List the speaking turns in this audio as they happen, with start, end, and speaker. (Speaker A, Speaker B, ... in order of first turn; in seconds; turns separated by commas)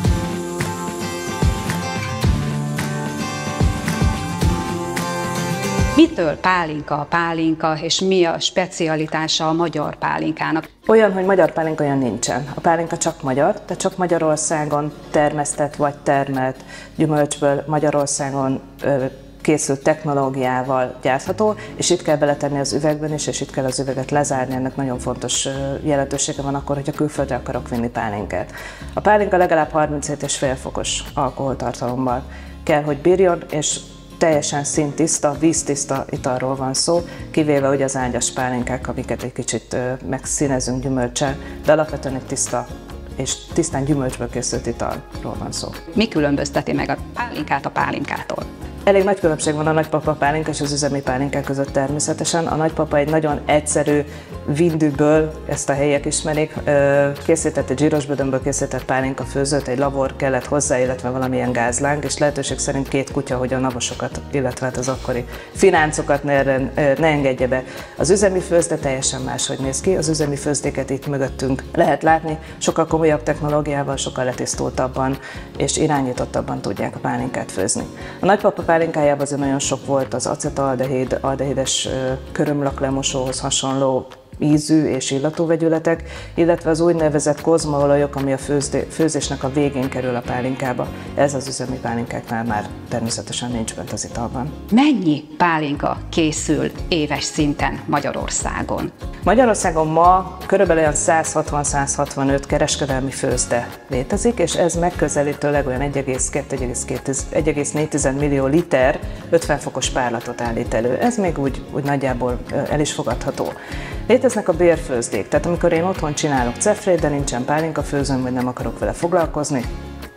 Speaker A: 5.9-10.6, Speaker B: 10.9-42.6, Speaker B: 43.2-45.7, Speaker A: 45.9-48.5, Speaker B: 48.9-94.5, Speaker A: 94.7-98.9, Speaker B: 99.2-113.5, Speaker B: 114.1-119.6